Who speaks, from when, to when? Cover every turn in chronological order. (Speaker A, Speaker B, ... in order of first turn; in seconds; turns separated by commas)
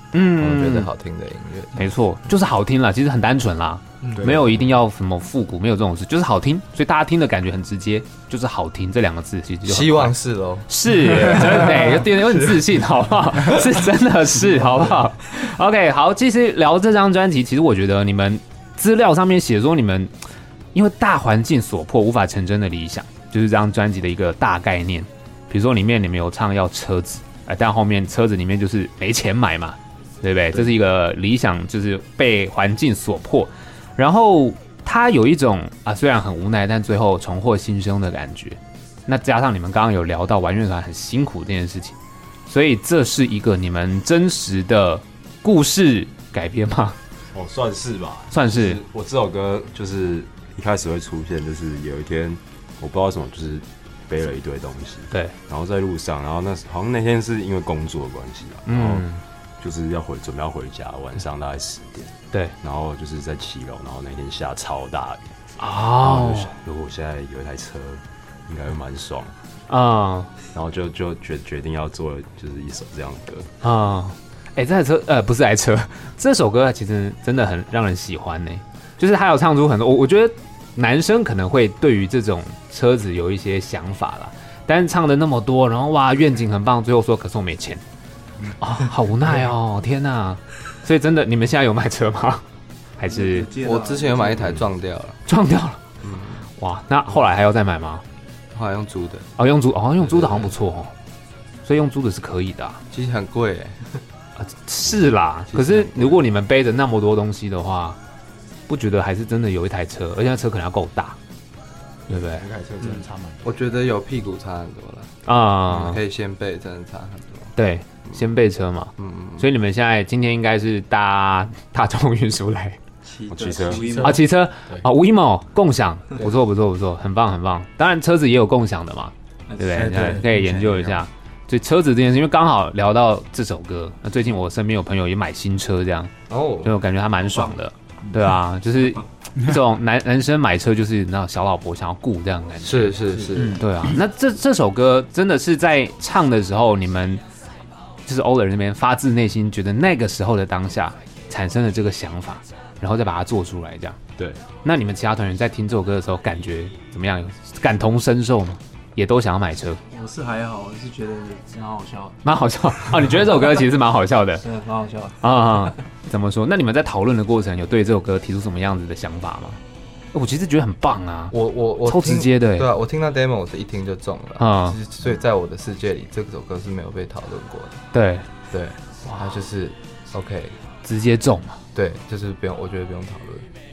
Speaker A: 0.1-0.9, Speaker B: 0.4-1.9, Speaker A: 1.8-10.1, Speaker C: 4.1-4.6, Speaker B: 9.7-12.6, Speaker A: 10.7-20.1, Speaker A: 20.7-42.0, Speaker A: 42.5-47.0, Speaker D: 47.3-59.1, Speaker A: 48.3-48.8, Speaker A: 58.7-59.2, Speaker D: 59.6-65.3, Speaker A: 65.6-66.5, Speaker D: 65.9-69.3, Speaker A: 69.7-70.3, Speaker D: 70.5-73.5, Speaker A: 73.6-87.8, Speaker A: 88.6-92.5, Speaker A: 93.0-93.5, Speaker E: 93.1-94.6, Speaker B: 93.6-95.2, Speaker A: 95.3-95.8, Speaker B: 96.0-96.5, Speaker A: 96.6-98.0, Speaker B: 98.5-99.3, Speaker A: 99.4-100.9, Speaker B: 100.0-100.5, Speaker A: 101.6-102.8, Speaker B: 102.9-103.8, Speaker A: 104.4-108.0, Speaker B: 105.5-106.2, Speaker A: 108.7-111.2, Speaker A: 112.1-112.5, Speaker C: 112.1-113.6, Speaker B: 113.4-117.5, Speaker A: 115.3-116.0, Speaker A: 117.6-122.8, Speaker B: 119.0-119.5, Speaker E: 123.1-124.2, Speaker D: 123.3-124.1, Speaker B: 123.7-124.2, Speaker A: 124.0-136.1, Speaker E: 129.5-130.4, Speaker B: 136.3-136.8, Speaker A: 136.6-147.2, Speaker B: 142.6-143.6, Speaker A: 148.1-154.0, Speaker A: 154.6-159.8, Speaker E: 159.9-162.2, Speaker A: 162.2-164.4, Speaker E: 164.4-165.8, Speaker A: 165.2-169.6, Speaker A: 170.1-172.7, Speaker B: 171.3-177.8, Speaker A: 174.4-174.8, Speaker A: 177.9-178.3, Speaker B: 178.5-180.6, Speaker A: 179.1-179.4, Speaker A: 180.8-181.6, Speaker B: 181.7-183.5